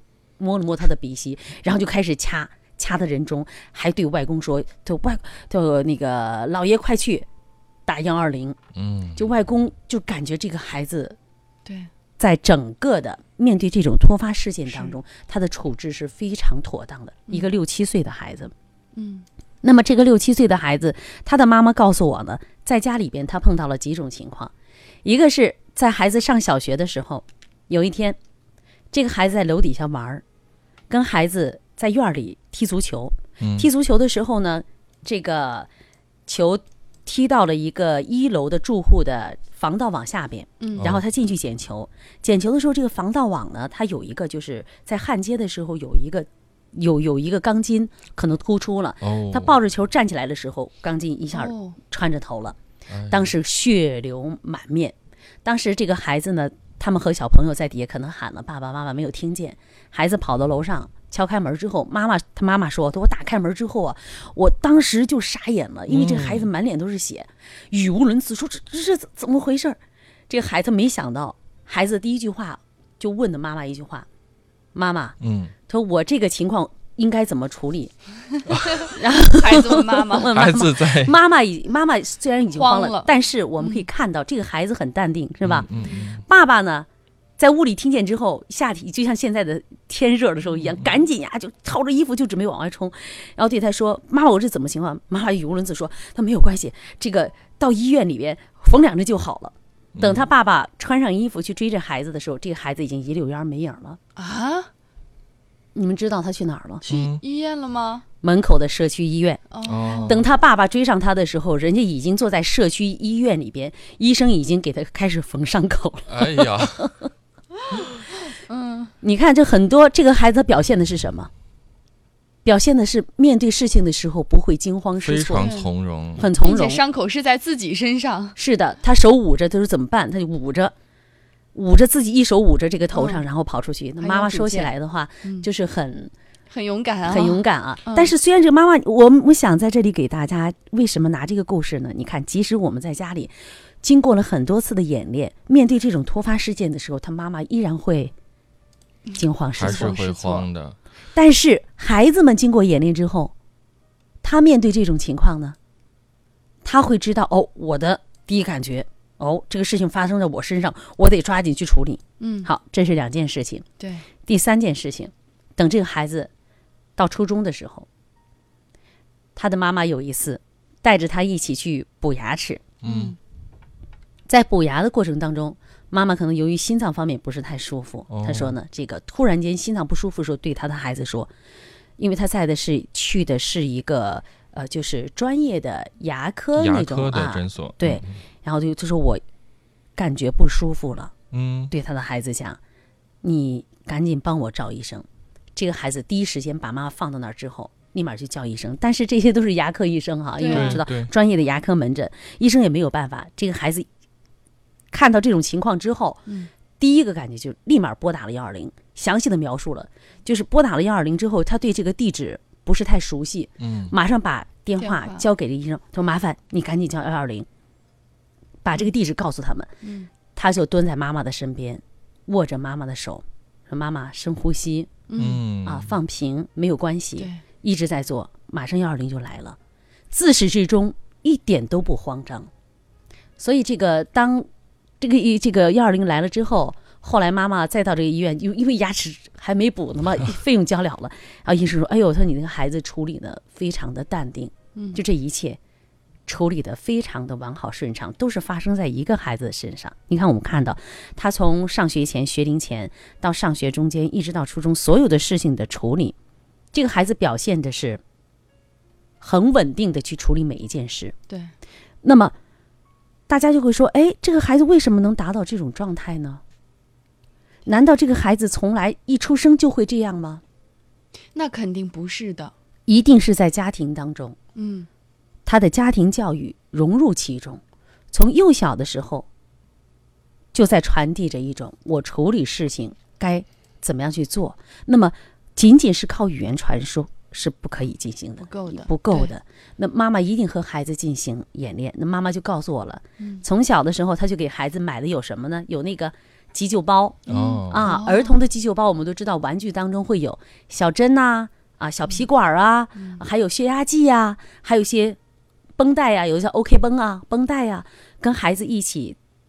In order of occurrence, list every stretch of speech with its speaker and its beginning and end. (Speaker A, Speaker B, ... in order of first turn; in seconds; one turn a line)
Speaker A: 0.4-7.3
Speaker A: 7.9-8.6
Speaker B: 8.8-9.2
Speaker A: 9.2-11.2
Speaker C: 11.7-11.9
Speaker A: 12.2-18.5
Speaker C: 14.7-15.0
Speaker C: 18.9-19.3
Speaker A: 19.6-24.5
Speaker A: 25.0-28.2
Speaker A: 28.9-30.2
Speaker A: 30.9-35.7
Speaker B: 33.4-33.7
Speaker A: 36.3-52.6
Speaker C: 40.6-40.9
Speaker B: 49.0-49.5
Speaker C: 51.3-51.8
Speaker B: 52.9-53.3
Speaker A: 53.1-69.8
Speaker B: 65.9-66.5
Speaker A: 70.3-74.1
Speaker A: 74.7-75.2
Speaker B: 75.2-75.5
Speaker A: 75.7-77.9
Speaker B: 78.5-78.8
Speaker C: 78.8-80.3
Speaker A: 78.8-86.9
Speaker B: 80.2-81.2
Speaker C: 82.6-83.9
Speaker B: 85.4-86.2
Speaker C: 85.8-86.1
Speaker A: 87.4-104.0
Speaker B: 90.7-90.9
Speaker B: 100.0-100.3
Speaker C: 104.2-104.7
Speaker A: 105.8-106.8
Speaker C: 106.8-108.0
Speaker B: 106.9-107.2
Speaker A: 108.2-109.5
Speaker C: 109.5-110.2
Speaker B: 109.6-110.3
Speaker A: 110.0-116.9
Speaker B: 116.1-117.0
Speaker C: 118.3-118.9
Speaker A: 119.0-121.3
Speaker A: 122.5-125.5
Speaker B: 125.0-126.3
Speaker C: 125.4-125.7
Speaker A: 126.2-126.8
Speaker C: 126.2-128.4
Speaker A: 128.4-130.7
Speaker A: 131.5-136.1
Speaker C: 132.9-133.2
Speaker C: 134.0-134.7
Speaker C: 136.5-138.1
Speaker A: 137.1-148.1
Speaker C: 149.1-150.5
Speaker A: 149.2-150.0
Speaker B: 149.6-150.8
Speaker A: 151.2-153.3
Speaker A: 154.2-155.6
Speaker A: 156.6-163.7
Speaker C: 162.2-162.5
Speaker C: 163.8-164.1
Speaker A: 164.2-166.3
Speaker A: 167.0-167.9
Speaker A: 169.4-172.7
Speaker B: 172.8-173.2
Speaker C: 172.8-173.2
Speaker A: 174.3-181.3
Speaker B: 178.1-178.6
Speaker A: 182.0-189.2
Speaker B: 186.6-188.2
Speaker A: 190.0-191.1
Speaker B: 191.3-191.7
Speaker A: 191.7-192.6
Speaker A: 193.2-203.9
Speaker C: 200.4-200.8
Speaker B: 200.5-201.1
Speaker A: 204.9-206.2
Speaker A: 206.8-217.5
Speaker B: 213.6-213.9
Speaker C: 214.8-215.2
Speaker A: 218.6-219.7
Speaker C: 219.8-220.1
Speaker A: 220.3-225.1
Speaker C: 225.1-225.4
Speaker B: 225.2-225.9
Speaker A: 225.6-229.6
Speaker A: 230.1-232.5
Speaker A: 233.4-234.5
Speaker A: 235.0-245.6
Speaker C: 244.8-245.0
Speaker A: 246.3-256.2
Speaker A: 256.7-258.0
Speaker A: 259.2-261.2
Speaker A: 262.0-262.3
Speaker A: 263.3-266.4
Speaker A: 267.7-270.4
Speaker C: 271.3-272.5
Speaker A: 272.9-274.4
Speaker C: 274.6-274.9
Speaker A: 275.5-277.6
Speaker A: 278.1-279.3
Speaker A: 280.5-305.2
Speaker C: 288.5-289.3
Speaker C: 293.2-293.4
Speaker B: 297.3-297.9
Speaker C: 297.3-298.4
Speaker C: 303.0-303.2
Speaker A: 305.8-309.2